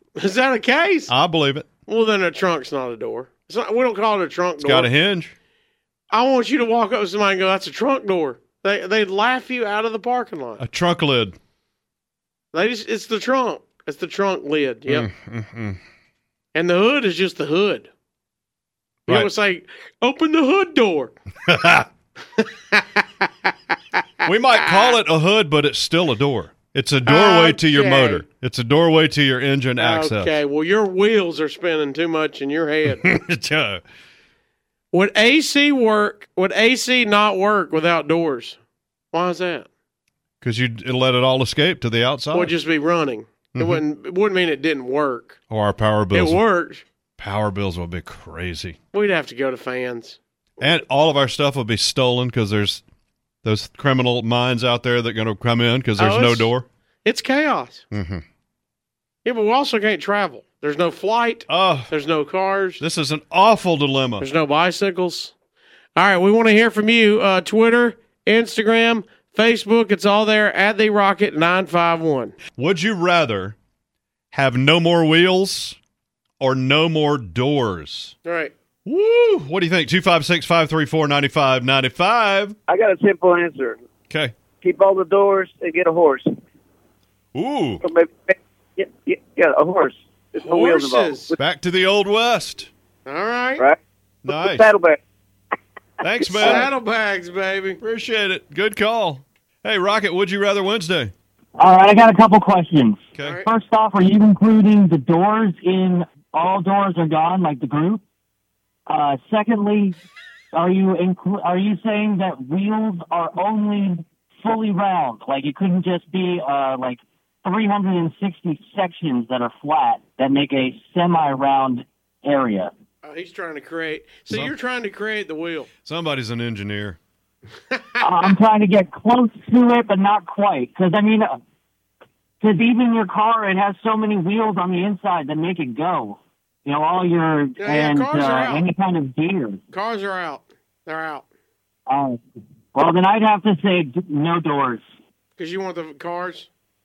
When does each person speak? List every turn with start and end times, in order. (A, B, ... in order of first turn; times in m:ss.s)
0:00.2-0:01.1 A
0:01.1-0:01.7 B
0:01.9-0:04.9 A
0:04.6-0:05.3 B
0:06.1-0:10.6 A
0:10.6-0:11.4 B
0:12.5-0:15.1 A
0:14.9-0:15.8 B
0:16.6-0:17.9 A
0:19.1-0:21.1 A
0:21.5-0:21.9 B
0:22.4-0:23.5 A
0:24.2-0:30.3 B
0:24.5-0:25.0 A
0:27.0-0:28.2 A
0:29.8-0:33.1 A
0:33.0-0:33.8 B
0:34.9-0:38.6 A
0:39.1-0:39.7 A
0:40.4-0:42.5 B
0:42.3-0:45.4 A
0:43.6-0:43.8 B
0:45.5-0:46.4 B
0:46.1-0:46.8 A
0:47.2-0:48.8 B
0:48.9-0:50.2 A
0:50.6-0:52.8 B
0:53.4-0:56.6 B
0:56.0-0:56.5 A
0:57.0-0:57.8 A
0:57.9-0:58.2 B
0:59.2-1:02.8 A
1:01.5-1:01.9 B
1:02.8-1:04.3 B
1:04.2-1:05.3 A
1:06.0-1:12.4 A
1:12.6-1:13.6 B
1:14.3-1:15.8 B
1:16.4-1:18.2 B
1:18.2-1:18.5 A
1:18.9-1:22.6 B
1:22.7-1:23.8 C
1:24.1-1:24.4 B
1:24.6-1:26.3 C
1:27.4-1:27.8 B
1:27.8-1:31.3 C
1:30.4-1:31.4 A
1:31.4-1:32.7 B
1:33.1-1:33.6 A
1:33.6-1:35.0 C
1:34.2-1:34.7 B
1:36.0-1:36.7 B
1:36.4-1:37.8 A
1:37.8-1:41.1 B
1:41.6-1:48.0 D
1:43.2-1:43.5 A
1:48.9-1:50.0 D
1:50.5-2:02.7 D
2:03.0-2:05.7 A
2:05.8-2:07.0 B
2:07.7-2:08.3 A
2:08.0-2:11.4 D
2:12.4-2:19.6 D
2:17.6-2:18.6 A
2:19.7-2:21.2 A
2:21.9-2:22.2 D
2:22.7-2:24.8 D
2:25.4-2:26.5 A